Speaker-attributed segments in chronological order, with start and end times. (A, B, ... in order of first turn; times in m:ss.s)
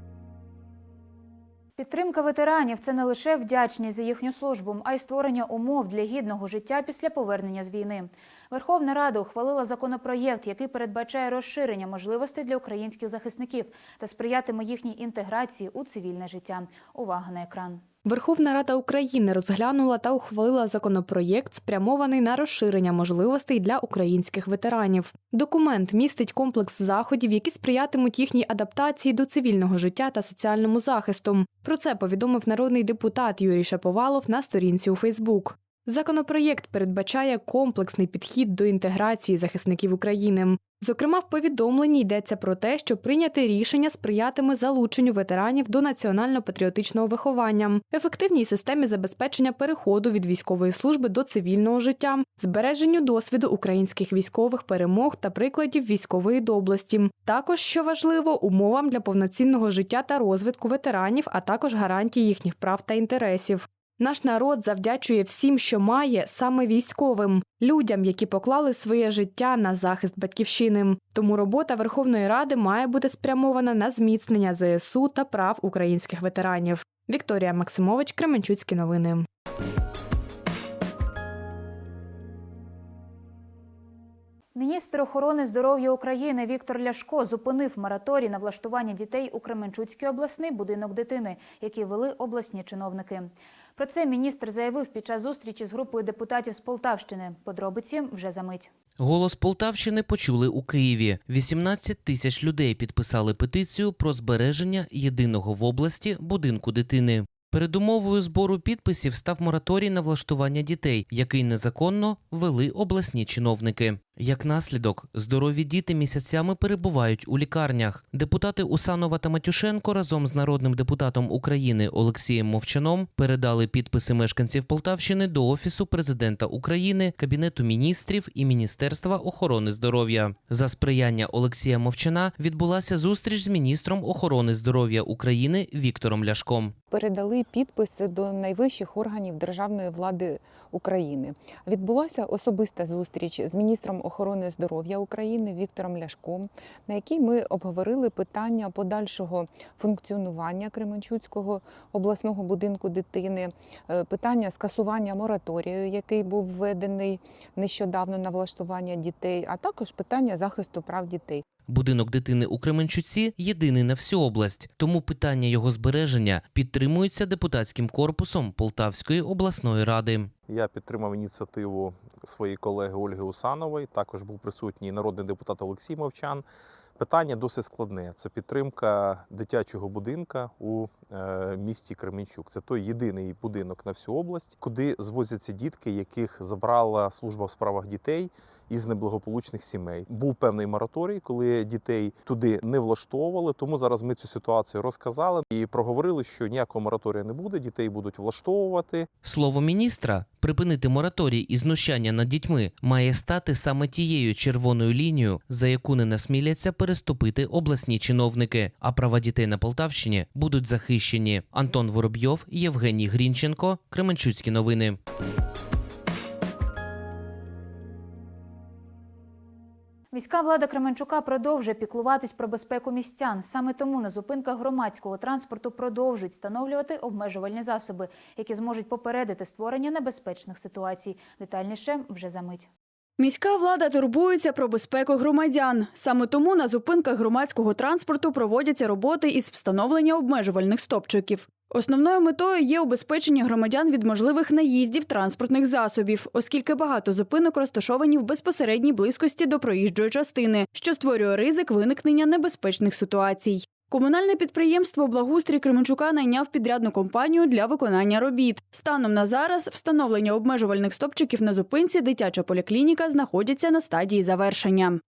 0:01.8-0:17.8 A
0:18.0-1:19.2 B
1:24.5-1:38.7 A
1:39.0-2:16.7 C
2:16.9-2:41.4 D
2:41.7-2:50.3 C
2:50.5-2:56.4 E
2:57.0-3:19.1 E
3:19.2-3:35.0 C
3:40.1-3:52.7 A
3:53.2-4:25.0 F